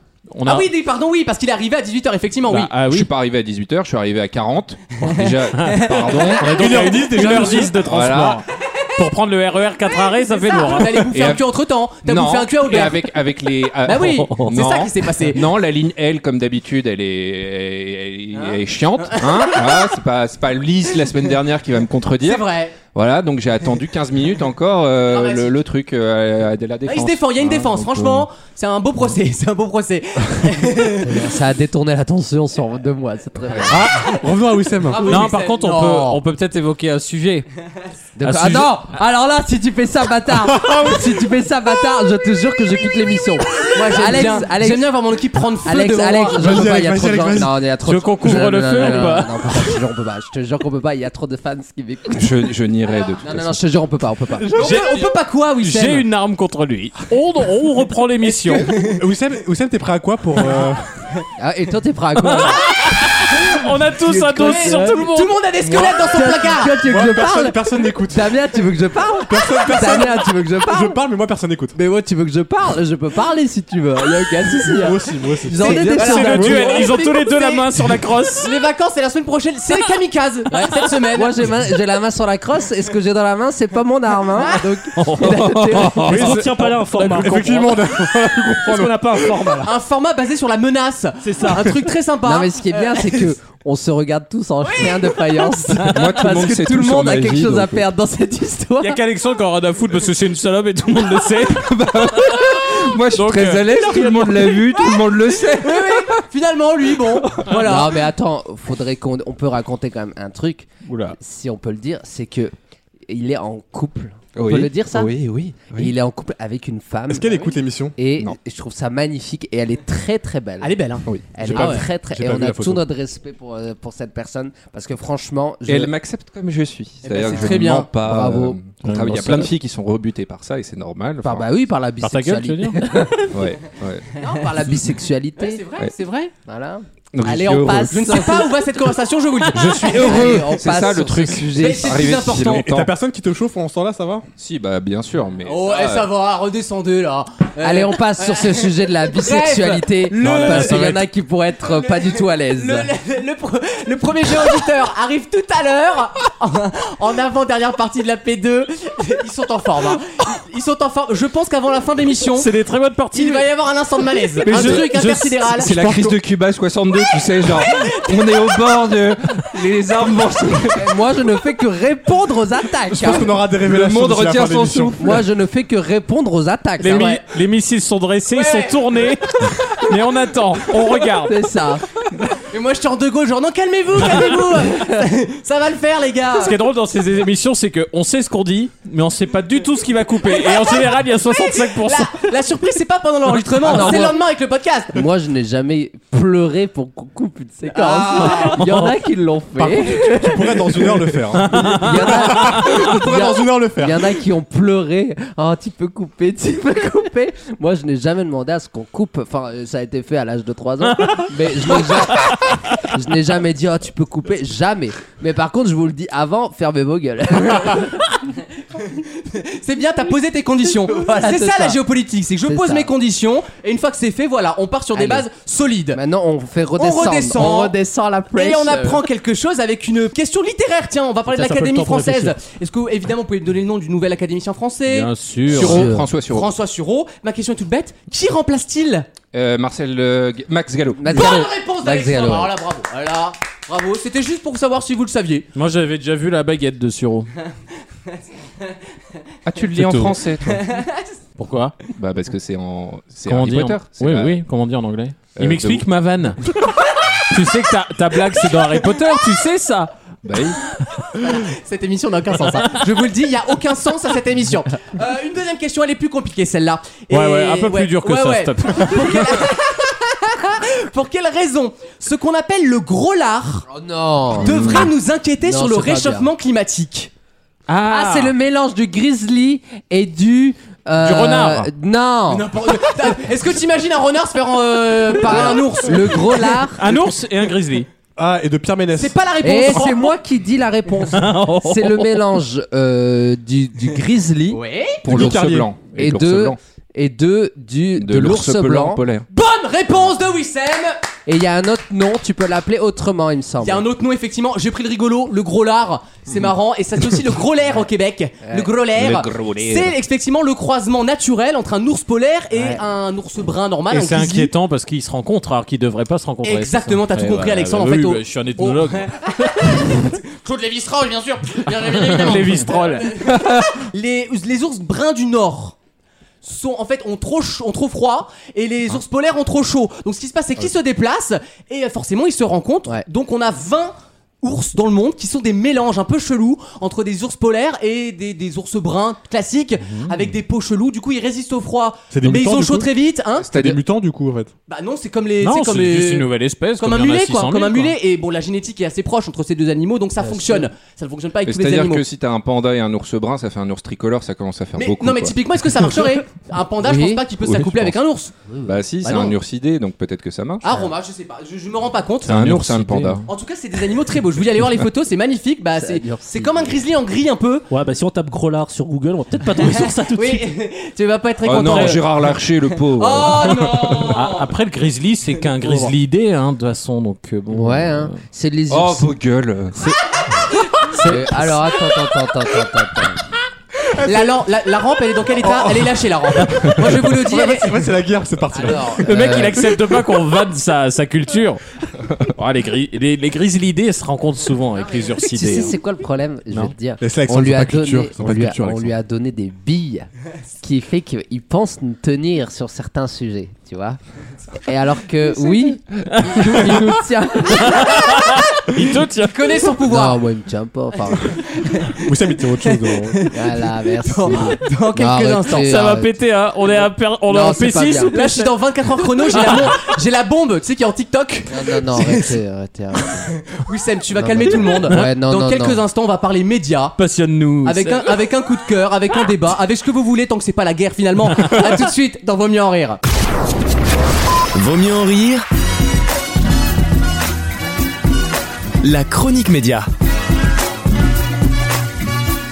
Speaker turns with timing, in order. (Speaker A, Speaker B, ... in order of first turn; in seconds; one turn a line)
Speaker A: 0.3-0.7
Speaker B: 0.4-2.7
Speaker A: 2.5-3.1
Speaker C: 2.8-6.5
Speaker B: 5.0-7.7
Speaker A: 5.5-11.1
Speaker D: 6.5-7.8
Speaker C: 7.8-8.4
Speaker B: 10.3-13.2
Speaker C: 11.1-11.5
Speaker C: 12.0-28.3
Speaker B: 13.8-15.6
Speaker A: 14.2-14.5
Speaker B: 18.3-20.0
Speaker B: 22.2-22.8
Speaker B: 25.0-25.6
Speaker B: 26.8-31.1
Speaker E: 31.0-34.0
Speaker D: 33.7-35.3
Speaker B: 34.8-36.2
Speaker A: 35.0-37.5
Speaker E: 38.2-44.9
Speaker A: 38.2-38.8
Speaker B: 43.7-46.8
Speaker E: 45.6-52.5
Speaker D: 46.3-47.5
Speaker A: 47.8-49.7
Speaker C: 52.1-53.6
Speaker E: 53.2-54.7
Speaker D: 54.5-54.9
Speaker B: 54.5-56.0
Speaker A: 55.6-58.7
Speaker B: 58.6-59.0
Speaker D: 58.8-60.9
Speaker E: 61.4-62.6
Speaker A: 62.2-65.3
Speaker E: 64.0-65.0
Speaker B: 64.4-66.8
Speaker E: 65.6-71.0
Speaker D: 66.8-68.3
Speaker D: 69.3-71.8
Speaker E: 71.7-76.9
Speaker D: 74.7-76.4
Speaker B: 75.6-77.9
Speaker A: 75.9-78.5
Speaker B: 78.4-81.3
Speaker E: 81.1-86.3
Speaker A: 84.9-87.6
Speaker F: 86.0-87.9
Speaker D: 87.0-89.5
Speaker F: 88.5-89.7
Speaker B: 89.6-93.3
Speaker F: 91.2-91.7
Speaker E: 92.2-99.0
Speaker B: 94.8-95.1
Speaker A: 95.8-96.1
Speaker C: 95.9-97.8
Speaker A: 98.8-102.6
Speaker C: 101.6-106.1
Speaker A: 103.1-104.6
Speaker B: 105.5-108.0
Speaker E: 107.5-112.5
Speaker A: 110.8-111.2
Speaker E: 113.1-115.1
Speaker C: 114.3-115.9
Speaker E: 115.7-117.4
Speaker D: 117.1-118.0
Speaker B: 117.3-117.5
Speaker E: 118.0-120.8
Speaker B: 120.6-121.8
Speaker E: 121.3-125.9
Speaker D: 121.4-122.8
Speaker C: 125.7-131.5
Speaker B: 127.0-127.9
Speaker E: 127.3-128.6
Speaker A: 128.8-129.5
Speaker E: 131.2-133.3
Speaker A: 132.0-133.1
Speaker C: 133.3-134.0
Speaker E: 134.2-135.6
Speaker B: 135.4-136.3
Speaker E: 136.4-136.8
Speaker C: 137.1-138.2
Speaker B: 137.2-140.6
Speaker E: 137.9-138.6
Speaker C: 139.5-142.9
Speaker E: 139.8-141.7
Speaker B: 141.5-142.7
Speaker D: 142.6-144.2
Speaker C: 144.4-146.1
Speaker B: 145.4-150.8
Speaker E: 147.6-152.9
Speaker A: 150.2-151.1
Speaker B: 151.7-162.5
Speaker A: 162.3-163.5
Speaker B: 163.1-165.8
Speaker A: 164.4-165.4
Speaker C: 165.6-170.8
Speaker D: 165.8-166.1
Speaker B: 167.5-168.3
Speaker E: 170.7-173.4
Speaker D: 172.9-174.9
Speaker C: 173.6-175.2
Speaker E: 175.0-177.2
Speaker A: 176.8-181.4
Speaker B: 176.8-177.2
Speaker B: 178.3-179.0
Speaker E: 181.2-181.8
Speaker B: 182.5-186.6
Speaker A: 186.3-192.2
Speaker B: 190.5-190.8
Speaker B: 191.4-195.0
Speaker E: 193.4-194.2
Speaker E: 194.9-218.0
Speaker B: 197.7-198.6
Speaker A: 198.6-198.9
Speaker D: 199.6-204.1
Speaker A: 201.4-202.7
Speaker A: 210.9-211.3
Speaker A: 211.9-212.3
Speaker B: 218.8-226.0
Speaker E: 220.8-221.8
Speaker E: 222.4-222.9
Speaker E: 224.9-225.3
Speaker E: 225.9-229.0
Speaker B: 226.8-227.7
Speaker B: 228.3-239.1
Speaker F: 231.3-232.3
Speaker A: 234.9-235.9
Speaker C: 235.5-236.5
Speaker E: 235.5-236.1
Speaker C: 239.3-241.3
Speaker E: 240.9-242.5
Speaker B: 241.1-245.4
Speaker A: 245.5-247.3
Speaker C: 249.4-250.6
Speaker A: 249.7-250.2
Speaker B: 250.4-251.1
Speaker A: 251.4-251.7
Speaker C: 251.9-254.4
Speaker A: 253.2-256.4
Speaker C: 255.3-255.9
Speaker A: 257.3-259.9
Speaker C: 260.2-260.6
Speaker B: 261.2-273.7
Speaker A: 267.1-269.2
Speaker E: 273.7-274.9
Speaker B: 274.4-277.1
Speaker E: 275.4-276.3
Speaker A: 277.7-278.3
Speaker E: 277.8-282.5
Speaker A: 281.0-281.7
Speaker B: 282.3-286.6
Speaker E: 285.1-286.9
Speaker A: 286.8-287.9
Speaker D: 288.2-289.2
Speaker B: 288.9-290.1
Speaker E: 289.4-294.6
Speaker A: 291.1-292.1
Speaker B: 294.5-295.0
Speaker C: 295.0-296.6
Speaker D: 295.1-295.7
Speaker E: 295.9-299.0
Speaker C: 298.0-299.3
Speaker B: 299.3-300.9
Speaker E: 301.2-303.8
Speaker B: 303.6-314.5
Speaker E: 308.4-308.7
Speaker C: 308.9-309.9
Speaker E: 312.5-312.8
Speaker A: 313.9-320.1
Speaker B: 316.4-325.8
Speaker A: 321.8-323.3
Speaker B: 326.4-343.6
Speaker A: 339.8-340.1
Speaker D: 342.1-342.9
Speaker C: 343.4-343.8
Speaker D: 343.5-344.5
Speaker B: 344.7-352.0
Speaker A: 345.4-347.9
Speaker E: 350.2-350.7
Speaker C: 351.4-355.4
Speaker B: 354.7-358.3
Speaker E: 356.8-357.2
Speaker C: 357.4-358.0
Speaker E: 358.5-358.8
Speaker C: 358.6-360.6
Speaker B: 359.0-359.4
Speaker B: 360.6-362.6
Speaker C: 362.2-363.3
Speaker A: 362.3-363.1
Speaker B: 363.2-367.7
Speaker E: 365.8-366.8
Speaker F: 367.7-370.5
Speaker B: 369.6-374.5
Speaker C: 371.4-374.2
Speaker F: 371.6-372.0
Speaker A: 374.1-378.1
Speaker E: 377.5-379.1
Speaker C: 378.7-379.7
Speaker A: 380.9-381.4
Speaker E: 381.0-383.2
Speaker B: 384.0-387.9
Speaker D: 385.4-385.9
Speaker D: 386.5-389.4
Speaker E: 388.5-389.6
Speaker A: 389.0-391.6
Speaker A: 392.3-395.7
Speaker E: 395.2-400.1
Speaker D: 397.0-398.9
Speaker E: 400.6-404.0
Speaker E: 404.6-408.1
Speaker A: 406.1-406.9
Speaker A: 407.5-409.8
Speaker B: 409.2-410.2
Speaker E: 409.8-411.4
Speaker B: 411.3-415.7
Speaker D: 412.0-413.2
Speaker E: 413.3-416.1
Speaker A: 415.5-418.5
Speaker E: 417.2-418.2
Speaker B: 418.1-422.3
Speaker A: 419.3-419.7
Speaker E: 421.5-423.3
Speaker B: 423.5-426.9
Speaker E: 424.1-425.8
Speaker A: 427.0-428.2
Speaker B: 427.6-433.0
Speaker A: 431.4-431.6
Speaker G: 434.5-435.4
Speaker G: 438.8-439.9